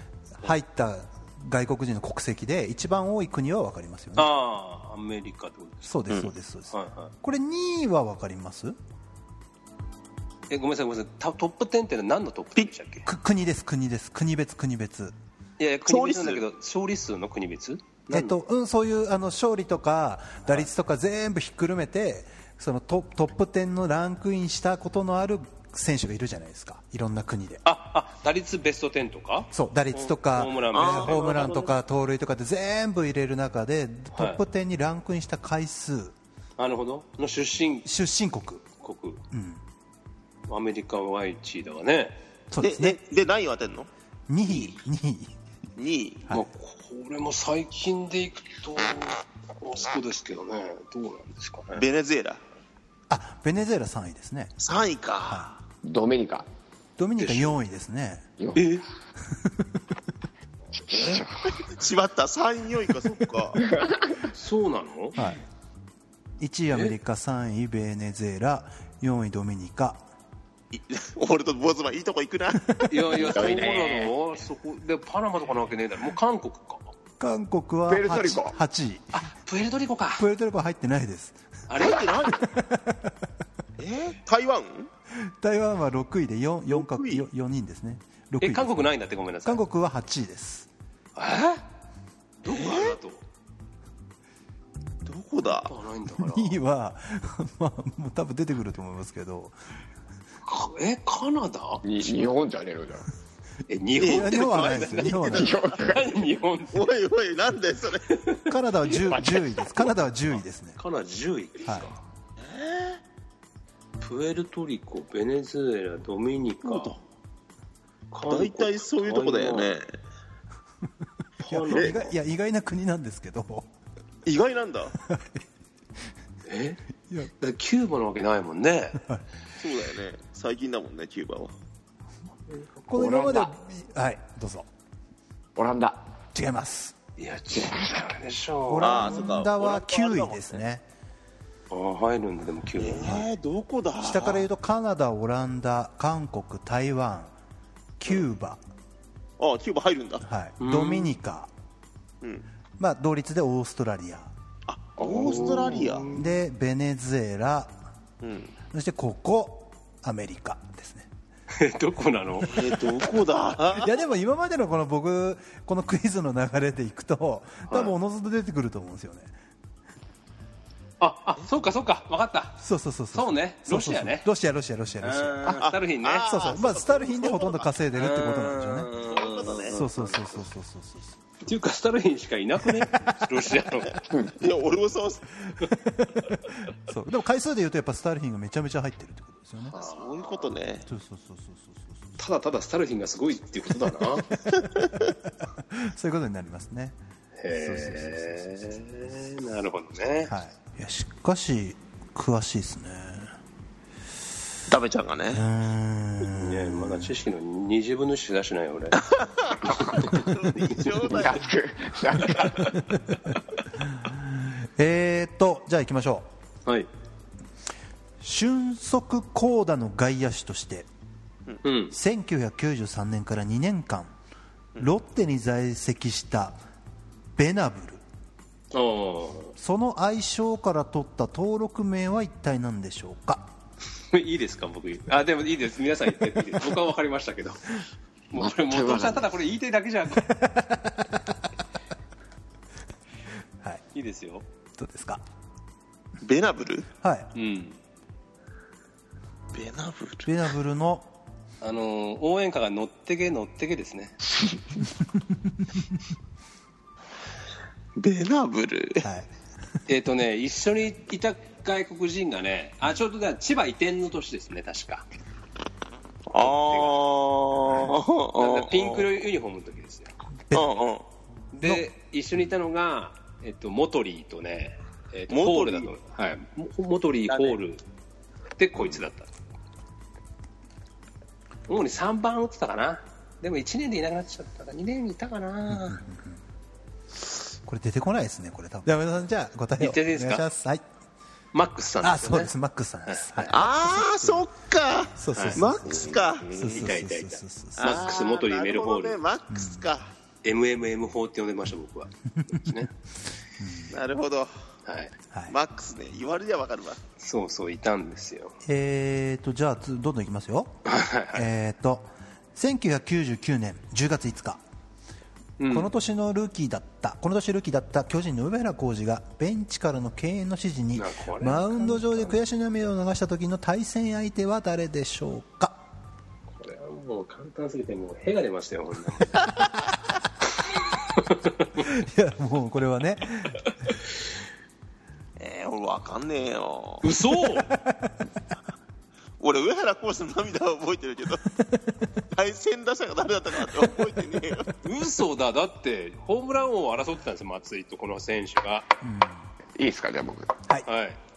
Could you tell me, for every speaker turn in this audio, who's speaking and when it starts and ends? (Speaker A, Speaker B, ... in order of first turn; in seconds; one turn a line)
Speaker A: 0.3-4.3
Speaker B: 4.2-5.9
Speaker A: 5.8-8.8
Speaker B: 6.7-7.1
Speaker B: 10.5-13.1
Speaker A: 13.1-15.2
Speaker B: 15.6-18.3
Speaker C: 15.8-16.4
Speaker A: 18.1-27.6
Speaker B: 27.6-31.8
Speaker A: 29.5-36.1
Speaker C: 30.7-31.2
Speaker B: 34.1-34.4
Speaker B: 36.6-37.9
Speaker A: 37.8-38.6
Speaker B: 38.8-39.2
Speaker A: 39.3-39.6
Speaker B: 40.5-42.1
Speaker A: 42.5-43.0
Speaker C: 42.6-43.9
Speaker A: 44.3-45.4
Speaker B: 44.5-44.7
Speaker C: 45.8-46.3
Speaker B: 46.3-51.8
Speaker C: 51.7-52.4
Speaker A: 53.1-54.5
Speaker C: 54.6-55.5
Speaker A: 55.2-55.5
Speaker D: 55.8-56.5
Speaker A: 57.0-58.2
Speaker B: 57.2-57.6
Speaker D: 58.4-58.7
Speaker B: 58.5-58.8
Speaker A: 59.3-59.6
Speaker D: 60.7-61.6
Speaker C: 61.0-63.6
Speaker D: 63.6-64.3
Speaker B: 64.3-65.2
Speaker A: 65.2-65.4
Speaker A: 66.4-70.0
Speaker C: 70.7-73.3
Speaker B: 72.8-76.9
Speaker D: 73.2-74.1
Speaker A: 77.2-79.1
Speaker D: 77.9-78.6
Speaker B: 79.1-80.3
Speaker A: 80.2-81.4
Speaker B: 81.7-82.1
Speaker C: 81.8-82.5
Speaker A: 82.4-83.1
Speaker C: 83.8-84.9
Speaker A: 85.2-90.7
Speaker C: 86.7-87.2
Speaker B: 88.4-89.6
Speaker B: 91.2-91.6
Speaker B: 92.4-93.2
Speaker C: 92.5-93.0
Speaker C: 95.0-95.7
Speaker B: 95.4-96.6
Speaker A: 96.2-99.5
Speaker B: 100.4-101.8
Speaker D: 101.8-103.1
Speaker B: 103.7-106.9
Speaker A: 104.0-105.6
Speaker C: 104.0-105.7
Speaker D: 105.3-106.1
Speaker C: 106.7-108.0
Speaker B: 108.1-108.9
Speaker A: 108.5-110.8
Speaker D: 109.1-109.6
Speaker B: 110.8-112.0
Speaker C: 112.4-113.0
Speaker B: 114.0-117.0
Speaker C: 116.6-117.0
Speaker B: 118.1-119.7
Speaker C: 118.3-119.9
Speaker B: 121.4-122.1
Speaker A: 121.5-123.7
Speaker C: 121.7-122.0
Speaker C: 124.2-125.0
Speaker A: 125.0-125.4
Speaker B: 126.5-126.8
Speaker B: 127.4-129.0
Speaker C: 129.6-131.5
Speaker B: 132.5-133.5
Speaker A: 132.9-134.7
Speaker D: 135.6-136.0
Speaker A: 136.3-136.9
Speaker B: 137.2-139.3
Speaker D: 137.6-137.8
Speaker A: 138.7-140.8
Speaker C: 138.8-140.6
Speaker B: 141.7-143.2
Speaker C: 142.8-144.4
Speaker A: 143.0-143.3
Speaker A: 144.0-147.3
Speaker A: 148.0-148.6
Speaker C: 149.4-150.2
Speaker A: 150.2-151.5
Speaker B: 150.6-151.2
Speaker A: 152.8-154.3
Speaker C: 154.7-156.1
Speaker D: 155.0-155.8
Speaker B: 155.0-156.2
Speaker A: 156.1-157.8
Speaker C: 158.2-158.5
Speaker A: 158.7-161.1
Speaker B: 161.5-162.8
Speaker C: 162.4-164.0
Speaker A: 163.7-169.3
Speaker B: 167.7-167.9
Speaker B: 171.0-172.6
Speaker A: 172.6-175.6
Speaker B: 173.1-174.2
Speaker B: 175.0-176.3
Speaker C: 175.4-177.7
Speaker A: 176.2-178.9
Speaker B: 177.9-180.4
Speaker C: 179.0-179.8
Speaker A: 179.7-181.2
Speaker B: 181.4-184.0
Speaker C: 184.4-185.3
Speaker A: 185.6-189.7
Speaker B: 189.7-190.5
Speaker C: 189.7-190.8
Speaker A: 190.8-192.1
Speaker B: 192.2-194.3
Speaker A: 194.5-197.0
Speaker B: 197.4-200.3
Speaker A: 197.5-198.8
Speaker A: 200.3-203.4
Speaker C: 204.7-205.4
Speaker A: 205.3-207.1
Speaker B: 206.3-209.0
Speaker C: 209.0-211.5
Speaker B: 209.6-211.2
Speaker D: 211.0-212.8
Speaker B: 212.3-212.8
Speaker A: 214.0-216.3
Speaker A: 218.2-220.9
Speaker B: 221.6-221.9
Speaker A: 221.9-224.1
Speaker A: 224.8-226.6
Speaker A: 227.3-228.0
Speaker B: 228.7-229.5
Speaker A: 229.6-233.5
Speaker B: 234.1-240.4
Speaker D: 238.3-239.3
Speaker A: 240.3-241.2
Speaker B: 243.9-244.4
Speaker A: 244.8-245.2
Speaker C: 246.2-246.9
Speaker A: 247.0-247.3
Speaker B: 247.3-247.8
Speaker C: 249.5-250.3
Speaker A: 250.2-251.1
Speaker B: 251.6-254.2
Speaker C: 257.9-259.1
Speaker A: 259.0-259.3
Speaker B: 259.9-265.1
Speaker C: 266.3-269.1
Speaker B: 266.4-266.9
Speaker B: 268.4-270.1
Speaker C: 270.5-271.0
Speaker B: 271.5-277.8
Speaker C: 275.3-275.9
Speaker C: 277.3-277.6
Speaker B: 278.6-279.3
Speaker B: 281.7-286.0
Speaker A: 285.7-286.4
Speaker A: 287.6-290.8
Speaker B: 289.8-290.4
Speaker B: 291.5-292.5
Speaker A: 292.0-294.4
Speaker B: 293.1-293.5
Speaker C: 293.5-296.8
Speaker A: 295.1-298.2
Speaker B: 295.3-295.6
Speaker B: 296.6-299.2
Speaker C: 297.8-300.1
Speaker A: 299.5-299.9
Speaker B: 300.4-302.9
Speaker A: 302.4-302.8
Speaker A: 303.6-303.9
Speaker C: 303.9-304.5
Speaker B: 304.9-305.1
Speaker C: 305.5-307.0
Speaker B: 307.2-308.6
Speaker A: 308.6-310.8
Speaker B: 310.8-311.5
Speaker A: 311.3-314.6
Speaker B: 315.6-315.9
Speaker A: 315.7-325.8
Speaker B: 320.9-322.3
Speaker B: 326.5-329.6
Speaker B: 330.6-331.8
Speaker A: 331.8-333.7
Speaker C: 335.4-337.1
Speaker B: 337.0-337.7
Speaker A: 337.6-338.1
Speaker C: 339.4-341.4
Speaker C: 342.3-344.7
Speaker B: 344.8-348.9
Speaker A: 349.0-349.5
Speaker D: 349.8-350.6
Speaker B: 350.9-351.2